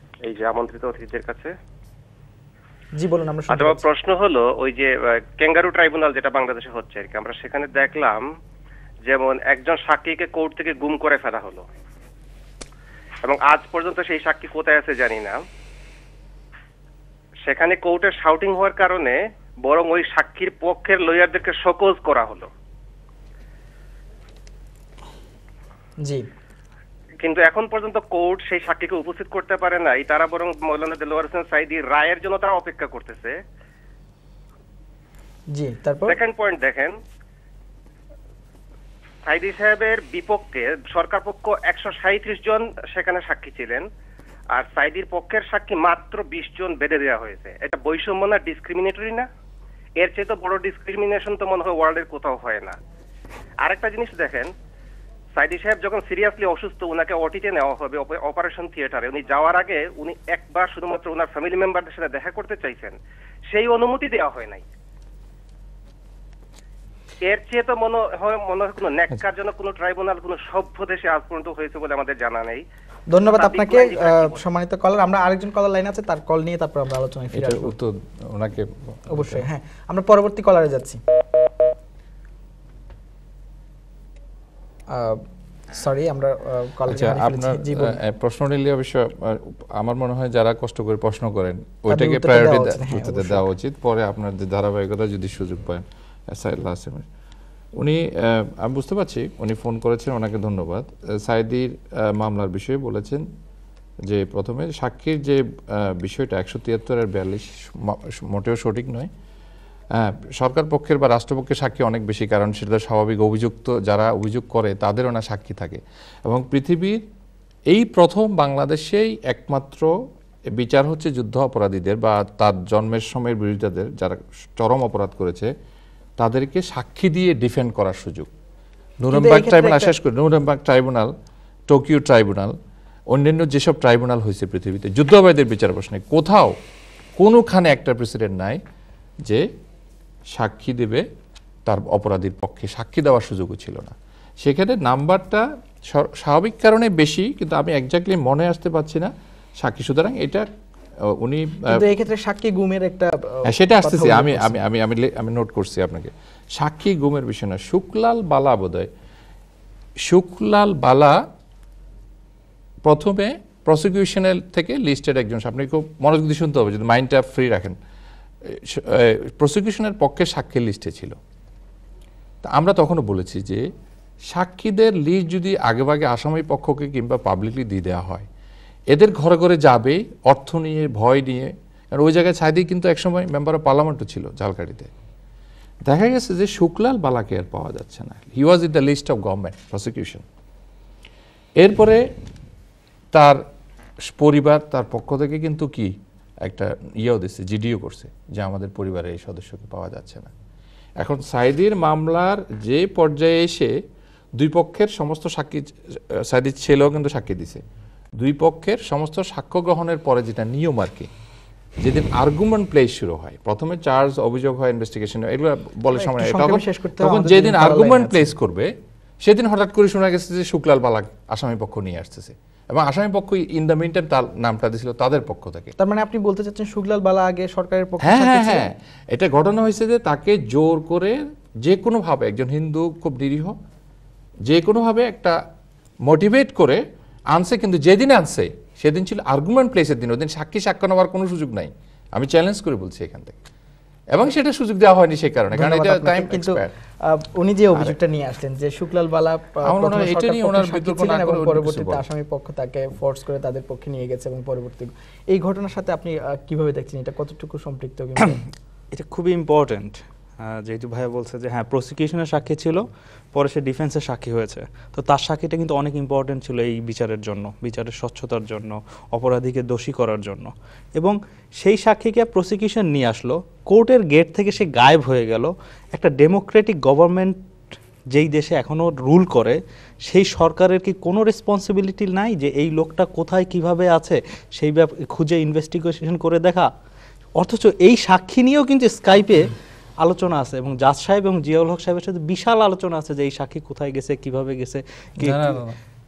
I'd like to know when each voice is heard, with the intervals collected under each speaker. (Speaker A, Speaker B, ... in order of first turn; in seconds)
Speaker A: 0.3-1.5, 3.5-8.2, 9.1-11.6, 13.2-15.4, 17.5-22.5, 27.2-33.4, 36.1-37.0, 39.3-43.9, 44.5-49.3, 50.0-52.8, 53.6-54.5, 55.4-63.0, 63.5-64.6, 67.2-72.6, 73.3-74.4
Speaker B: 3.0-3.8, 35.5-36.2, 73.1-77.7, 79.1-81.0, 84.9-85.2, 85.7-88.0, 91.9-93.5, 129.1-129.9, 151.7-154.6, 215.9-218.3, 225.8-228.7, 245.5-258.4
Speaker C: 77.3-79.5, 86.9-97.0, 97.8-103.2, 104.0-109.1, 110.0-117.0, 117.7-119.9, 120.5-125.5, 126.2-128.3, 129.0-131.1, 131.7-132.6, 133.1-136.6, 137.2-138.6, 140.3-141.1, 141.7-150.5, 151.1-151.8, 153.4-158.9, 160.1-161.2, 162.8-167.8, 168.4-171.2, 172.4-173.7, 174.3-178.2, 178.9-184.9, 185.9-190.2, 191.6-192.0, 193.1-193.4, 194.1-195.9, 196.4-200.3, 201.0-203.7, 204.4-207.6, 208.2-211.1, 211.8-218.7, 219.2-225.7, 228.0-233.6, 234.4-235.4, 236.1-236.8, 237.3-243.3, 244.1-246.8, 249.6-252.0, 295.2-295.8
Speaker D: 258.9-277.4, 278.1-286.7, 287.4-295.6